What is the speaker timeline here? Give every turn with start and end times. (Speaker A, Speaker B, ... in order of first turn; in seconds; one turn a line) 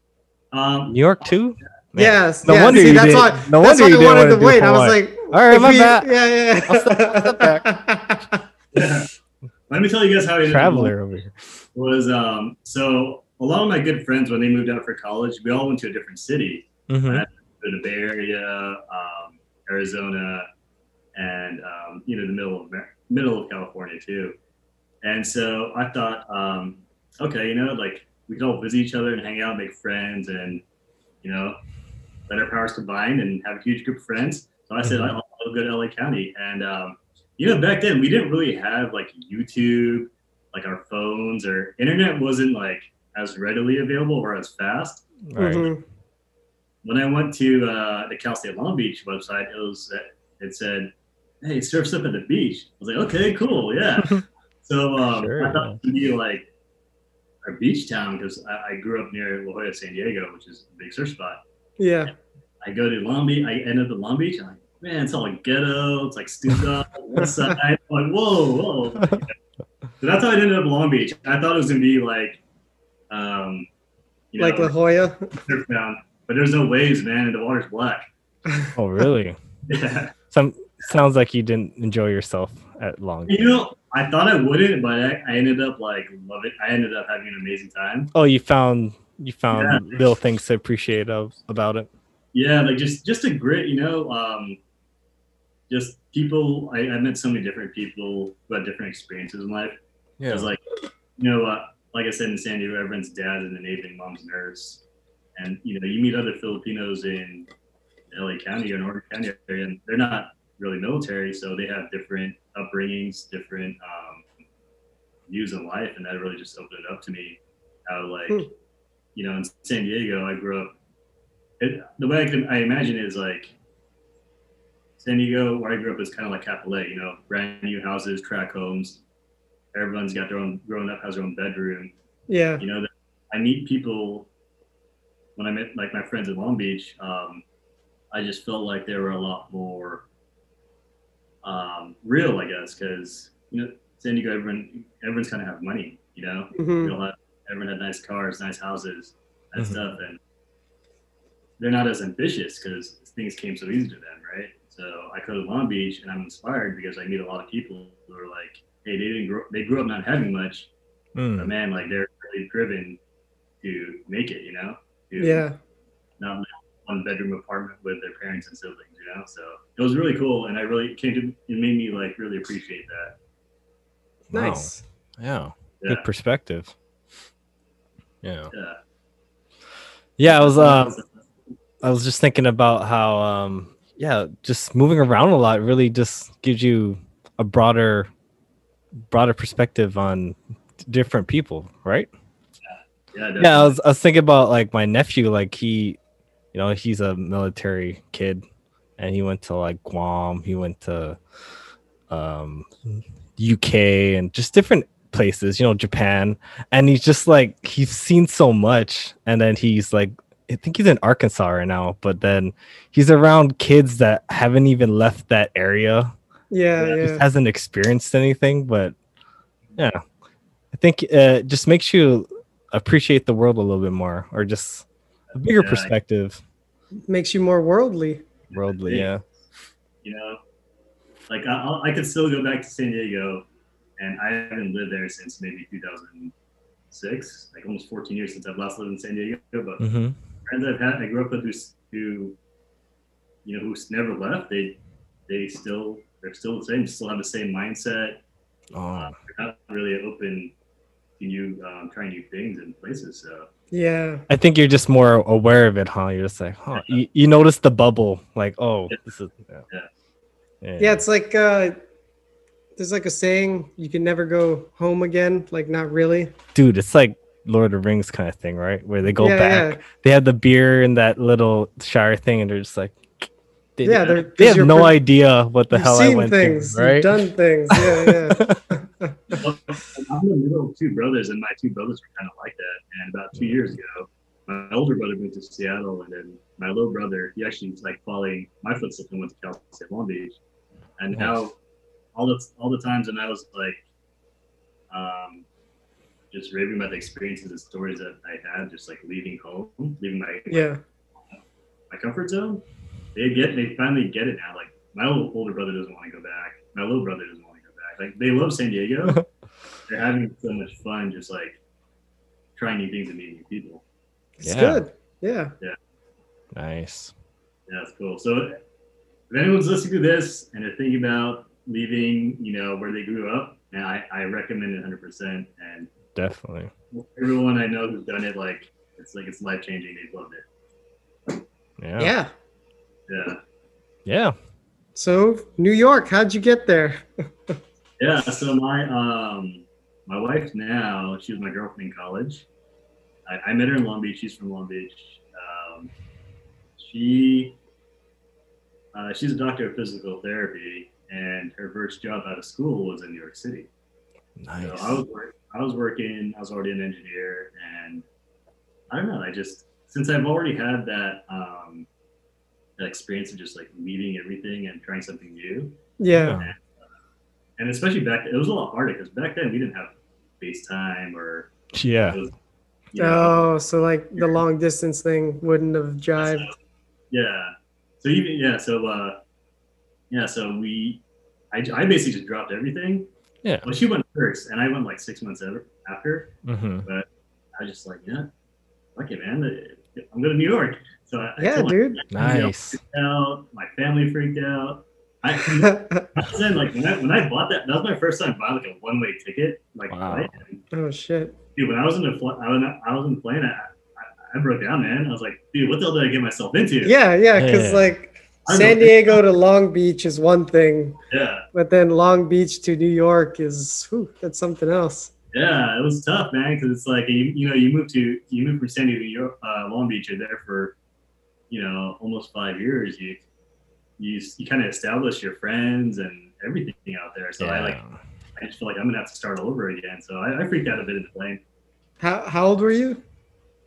Speaker A: 0.5-1.3
Speaker B: 0.9-7.7
Speaker C: 1.9-8.4
Speaker A: 2.6-2.9
Speaker A: 8.7-9.1
Speaker A: 9.7-10.9
Speaker B: 10.4-11.3
Speaker A: 11.7-20.5
Speaker B: 16.9-17.2
Speaker A: 21.1-24.4
Speaker A: 25.0-30.6
Speaker A: 31.2-31.6
Speaker A: 32.3-45.0
Speaker B: 34.8-35.1
Speaker B: 45.2-45.7
Speaker C: 45.4-45.8
Speaker A: 46.8-56.5
Speaker B: 55.1-55.8
Speaker A: 57.4-61.4
Speaker C: 61.8-62.1
Speaker A: 62.6-69.3
Speaker A: 70.0-72.4
Speaker A: 73.1-73.7
Speaker A: 74.3-74.7
Speaker C: 74.4-75.3
Speaker A: 75.4-78.0
Speaker B: 78.7-79.4
Speaker A: 79.7-80.1
Speaker B: 80.3-83.6
Speaker A: 83.2-88.1
Speaker B: 88.1-91.9
Speaker A: 89.5-90.0
Speaker A: 92.3-94.6
Speaker A: 95.7-99.8
Speaker B: 100.2-100.5
Speaker A: 100.3-100.6
Speaker A: 101.2-104.8
Speaker A: 105.3-107.5
Speaker A: 108.1-114.2
Speaker A: 115.3-118.5
Speaker A: 119.1-120.7
Speaker A: 121.6-123.5
Speaker A: 125.0-129.0
Speaker A: 129.7-131.9
Speaker C: 132.3-132.6
Speaker A: 132.6-134.3
Speaker A: 135.3-137.4
Speaker A: 138.1-140.1
Speaker A: 141.4-150.2
Speaker C: 146.6-146.9
Speaker A: 151.6-160.7
Speaker B: 161.2-161.5
Speaker A: 161.4-163.0
Speaker A: 163.6-165.4
Speaker C: 165.2-165.5
Speaker A: 166.2-173.2
Speaker C: 174.3-174.8
Speaker B: 174.3-176.7
Speaker A: 175.8-176.1
Speaker B: 178.2-178.5
Speaker A: 178.5-178.8
Speaker B: 180.2-181.0
Speaker A: 180.2-181.2
Speaker B: 181.8-188.1
Speaker B: 189.1-192.1
Speaker A: 192.6-193.8
Speaker B: 193.4-196.0
Speaker B: 196.5-198.4
Speaker B: 199.0-201.2
Speaker B: 202.1-216.1
Speaker C: 216.5-217.2
Speaker B: 216.9-218.9
Speaker B: 220.7-226.4
Speaker A: 225.5-225.9
Speaker C: 227.1-228.2
Speaker A: 228.5-229.1
Speaker B: 228.5-229.2
Speaker A: 230.0-230.4
Speaker A: 231.3-233.4
Speaker A: 234.0-236.3
Speaker A: 236.9-239.8
Speaker B: 239.8-240.2
Speaker A: 240.4-242.4
Speaker A: 243.4-248.2
Speaker B: 248.7-249.1
Speaker A: 248.9-250.5
Speaker A: 251.2-253.5
Speaker C: 253.7-254.2
Speaker B: 254.3-259.6
Speaker B: 260.6-261.0
Speaker C: 260.8-261.8
Speaker C: 262.8-266.3
Speaker B: 266.5-273.0
Speaker C: 269.2-269.8
Speaker B: 273.8-277.1
Speaker C: 273.8-275.0
Speaker C: 275.7-279.4
Speaker B: 277.7-278.8
Speaker A: 279.3-290.4
Speaker B: 283.3-283.8
Speaker A: 291.0-291.5
Speaker B: 291.1-291.4
Speaker A: 292.1-293.8
Speaker A: 294.9-295.4
Speaker A: 296.3-300.7
Speaker C: 300.5-300.8
Speaker A: 301.9-302.6
Speaker A: 303.1-309.2
Speaker A: 309.9-311.6
Speaker A: 312.6-313.8
Speaker C: 314.4-315.5
Speaker B: 314.4-314.8
Speaker B: 316.5-317.1
Speaker A: 317.7-318.6
Speaker A: 319.3-325.9
Speaker B: 326.1-326.7
Speaker A: 326.9-330.4
Speaker B: 331.8-332.1
Speaker C: 332.0-332.3
Speaker A: 333.1-333.4
Speaker B: 334.1-334.3
Speaker C: 334.9-337.6
Speaker A: 338.0-342.4
Speaker A: 343.2-345.9
Speaker A: 346.8-347.6
Speaker A: 348.9-353.7
Speaker B: 354.4-355.0
Speaker A: 354.6-358.0
Speaker A: 358.9-361.9
Speaker A: 362.8-365.8
Speaker C: 366.0-366.4
Speaker B: 366.1-366.5
Speaker A: 366.4-366.6
Speaker A: 367.6-371.5
Speaker B: 371.7-372.2
Speaker A: 372.9-373.5
Speaker C: 373.0-376.5
Speaker A: 376.2-376.5
Speaker A: 377.1-379.2
Speaker A: 380.1-383.1
Speaker B: 383.4-383.7
Speaker A: 383.6-386.3
Speaker B: 386.4-386.9
Speaker A: 386.8-388.3
Speaker A: 388.9-400.6
Speaker C: 391.4-392.0
Speaker B: 392.1-392.8
Speaker C: 395.6-396.1
Speaker B: 399.9-400.3
Speaker C: 400.7-401.3
Speaker A: 401.6-406.9
Speaker C: 406.8-411.0
Speaker B: 407.4-407.9
Speaker A: 408.4-409.2
Speaker A: 411.1-411.4
Speaker C: 411.5-415.1
Speaker A: 415.3-420.7
Speaker A: 421.5-423.2
Speaker A: 424.0-427.8
Speaker B: 427.4-428.0
Speaker A: 428.4-431.4
Speaker C: 432.0-433.0